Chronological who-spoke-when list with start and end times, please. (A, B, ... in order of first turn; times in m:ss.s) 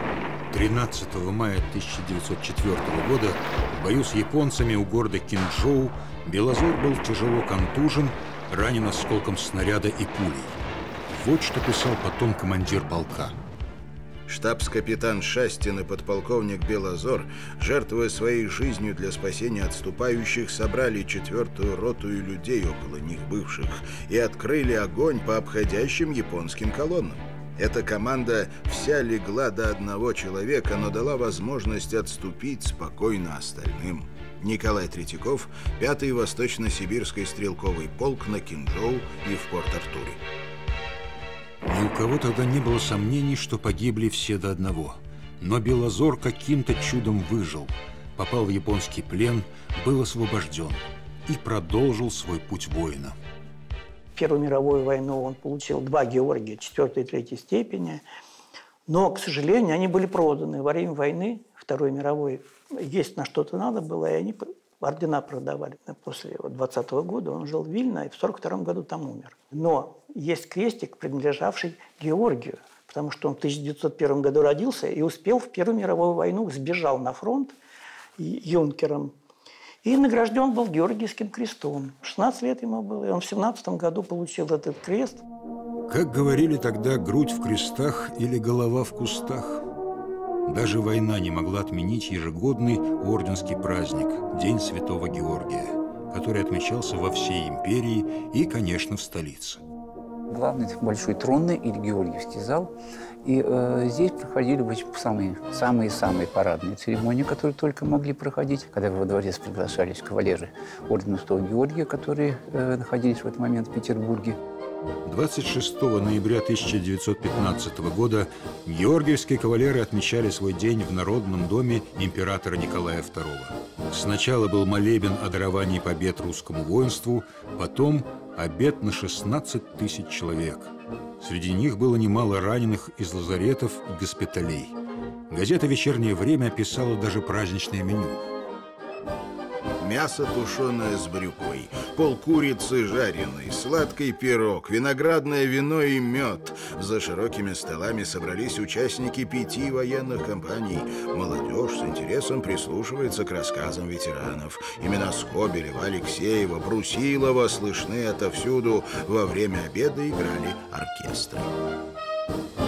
0:00.5-0:13.3 A
0:14.3-0:40.2 B
0:41.6-0:53.2 A
0:54.1-0:58.0 C
0:58.9-1:17.6 C
1:18.2-1:19.1 C
1:19.8-1:25.2 C
1:25.8-1:29.6 A
1:30.4-1:39.6 A
1:40.3-1:42.7 D
1:43.2-1:54.4 D
1:55.0-2:14.8 A
2:15.3-2:18.3 A
2:19.8-2:41.5 B